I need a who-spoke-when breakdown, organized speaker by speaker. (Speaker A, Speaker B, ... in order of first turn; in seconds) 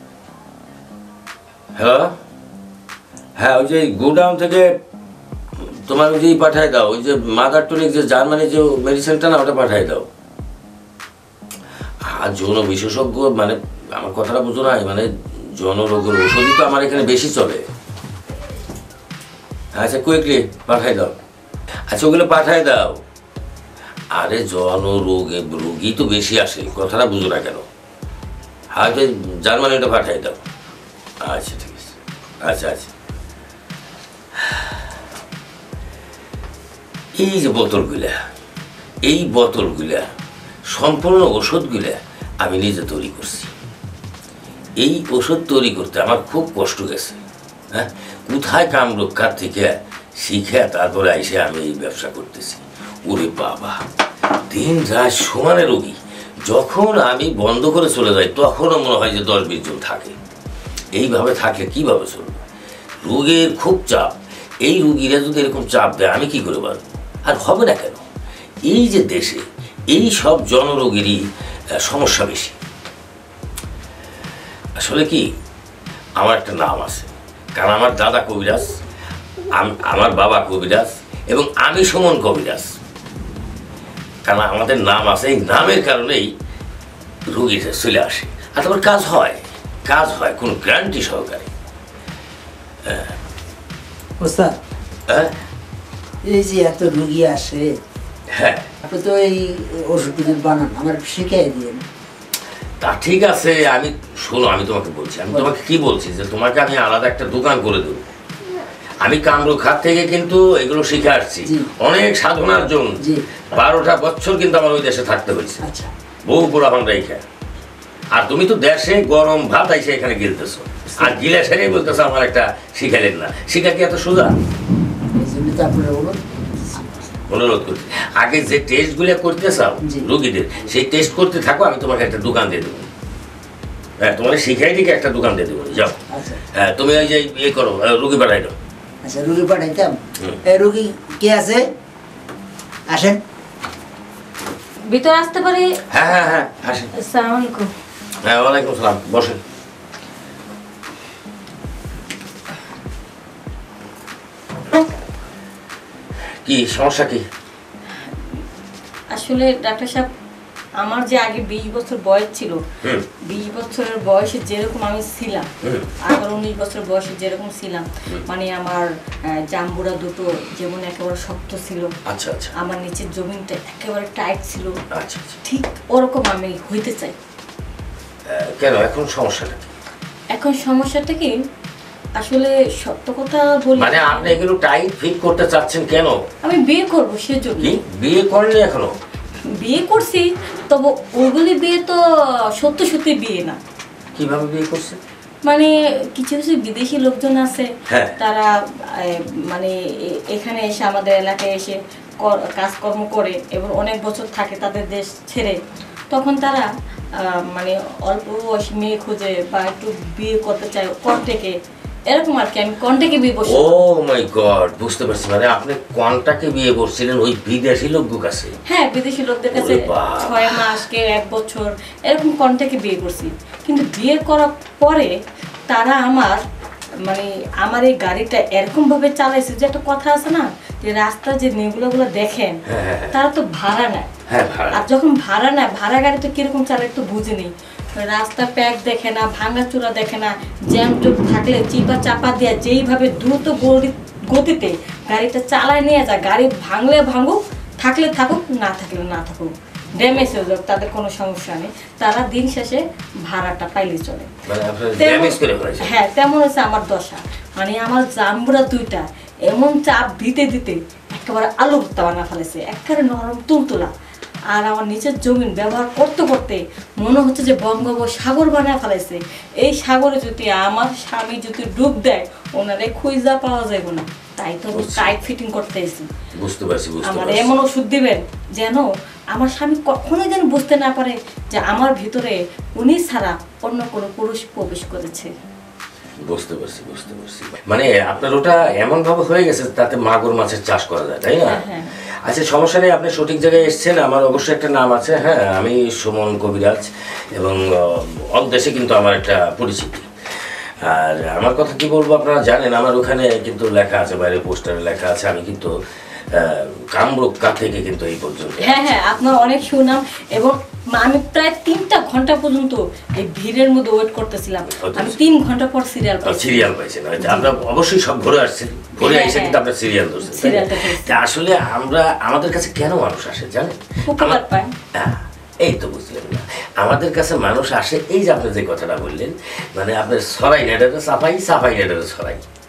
Speaker A: 1.8-2.1, 3.4-4.7, 5.6-10.1, 12.1-17.7, 19.8-21.1, 21.9-23.0, 24.1-27.6, 28.7-30.4, 31.2-32.9, 37.2-38.2, 39.0-40.1, 40.7-43.5, 44.8-47.2, 47.7-53.8, 54.5-60.1, 60.9-62.4, 63.0-68.0, 68.7-71.2, 71.8-72.5, 74.8-75.3, 76.2-78.8, 79.5-82.7, 84.2-86.3, 87.3-91.5, 92.9-93.2, 98.3-98.7, 102.8-108.0, 109.0-115.7, 116.3-117.2, 118.1-124.4, 127.3-132.9, 134.0-136.0, 136.5-138.6, 145.9-146.9, 148.2-149.4, 156.4-157.2, 165.6-165.9, 172.1-172.5, 174.9-175.4, 178.3-179.7, 183.8-186.2, 187.6-188.9, 194.2-195.0, 197.9-198.2, 213.5-218.6, 219.5-220.8, 232.7-233.2, 234.3-234.8, 254.5-255.9, 274.7-275.1, 276.4-277.6, 286.2-291.6, 292.2-300.1, 300.8-305.7, 306.3-309.5, 314.7-315.3, 316.3-324.4, 324.9-332.4
Speaker B: 94.2-94.6, 96.2-97.8, 98.8-101.8, 111.5-111.7, 113.0-113.2, 115.6-115.9, 125.2-127.0, 129.8-130.1, 136.1-136.4, 139.0-141.7, 142.9-143.2
Speaker C: 144.9-145.8, 146.9-147.7, 159.1-160.1, 160.8-162.6, 163.2-165.5, 166.0-171.9, 172.6-174.7, 175.4-177.2, 180.3-181.3, 182.2-184.4, 186.4-187.8, 189.6-192.0, 192.6-193.6, 195.5-205.6, 206.1-206.7, 207.2-211.6, 212.1-213.7, 218.7-225.1, 225.7-226.4, 227.1-232.6, 233.1-234.1, 234.7-254.3, 255.0-263.9, 264.5-276.1, 277.1-285.3, 291.4-291.9, 308.6-316.7, 317.2-317.6, 319.0-319.6, 320.2-321.2, 324.1-324.7